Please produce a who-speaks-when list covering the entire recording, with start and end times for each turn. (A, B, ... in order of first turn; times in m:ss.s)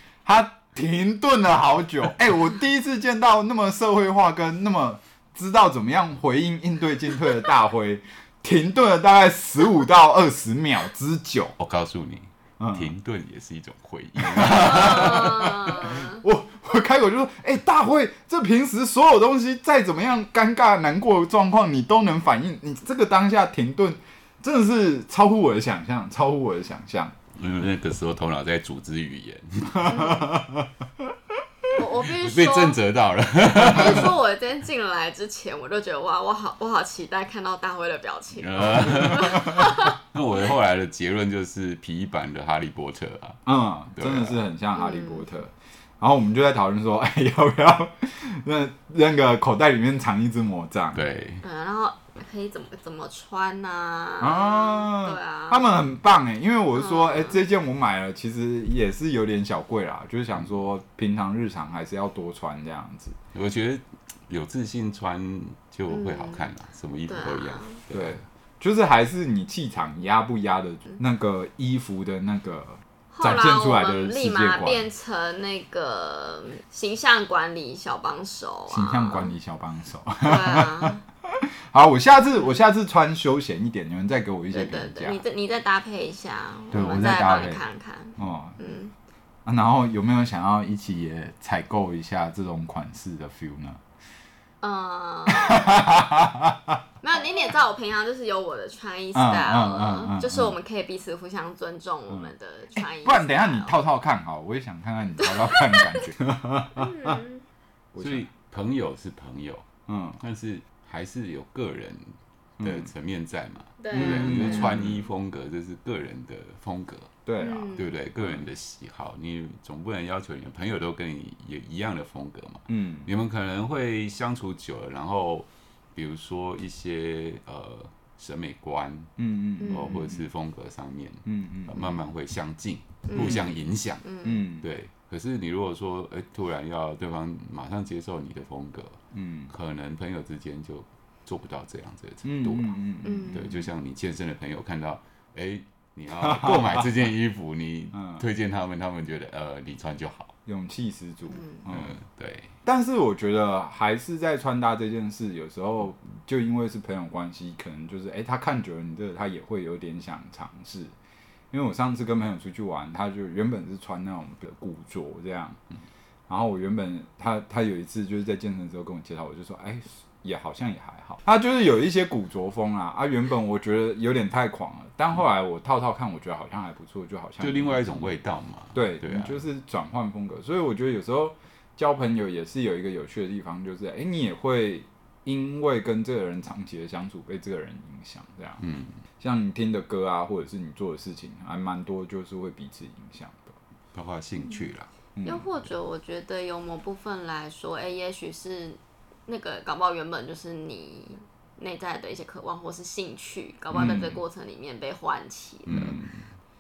0:00.3-0:11.6 A
0:11.6-0:15.7 B
0:12.6-0:12.9 A
0:14.2-0:27.2 A
0:14.6-0:16.2 C
0:27.4-0:29.9 B
0:29.7-0:30.7 A
0:29.9-0:30.3 C
0:31.7-0:32.8 C
0:32.0-0:34.2 B
0:33.4-0:40.0 C
0:38.4-0:43.4 B
0:43.5-0:51.0 A
0:44.0-0:44.4 B
0:44.8-0:45.3 C
0:50.9-0:51.4 B
0:51.4-0:55.7 C
0:54.2-1:03.2 A
0:56.8-0:57.4 C
1:03.3-1:08.2 B
1:05.9-1:06.5 C
1:07.1-1:07.8 C
1:07.9-1:14.9 A
1:13.1-1:19.4 C
1:18.7-1:25.2 A
1:20.2-1:21.0 C
1:24.5-1:28.9 C
1:26.7-1:27.6 A
1:28.2-1:28.6 A
1:29.5-1:33.8 A
1:34.6-1:35.8 C
1:35.3-1:36.8 A
1:37.0-1:43.8 C
1:39.2-1:40.5 A
1:43.0-1:47.2 A
1:45.2-1:46.1 C
1:46.8-1:47.4 C
1:47.9-1:48.3 A
1:48.0-1:49.6 B
1:49.9-1:50.2 A
1:50.2-1:57.1 B
1:52.6-1:52.9 A
1:53.8-1:54.8 C
1:53.9-1:55.0 A
1:57.3-1:58.4 A
1:57.4-1:57.9 C
1:57.8-2:09.1 B
2:02.7-2:03.1 A
2:09.2-2:10.2 A
2:09.6-2:10.0 C
2:09.7-2:14.1 B
2:11.2-2:11.9 A
2:13.1-2:14.4 C
2:13.2-2:13.5 A
2:14.2-2:14.7 A
2:14.6-2:19.0 B
2:19.1-2:19.5 A
2:19.5-2:22.8 B
2:22.2-2:23.6 A
2:23.0-2:23.4 C
2:23.3-2:30.3 B
2:26.2-2:26.9 A
2:27.9-2:28.2 A
2:30.5-2:32.0 A
2:31.3-2:31.6 C
2:31.7-2:32.5 B
2:32.6-2:40.9 A
2:41.5-2:45.6 A
2:46.3-2:58.1 A
2:57.4-2:59.4 B
2:58.7-3:08.7 A
3:08.6-3:09.0 B
3:09.2-3:13.6 A
3:13.9-3:14.9 B
3:15.2-3:15.5 A
3:15.2-3:26.0 C
3:23.7-3:24.1 B
3:23.7-3:24.2 A
3:25.7-3:26.2 B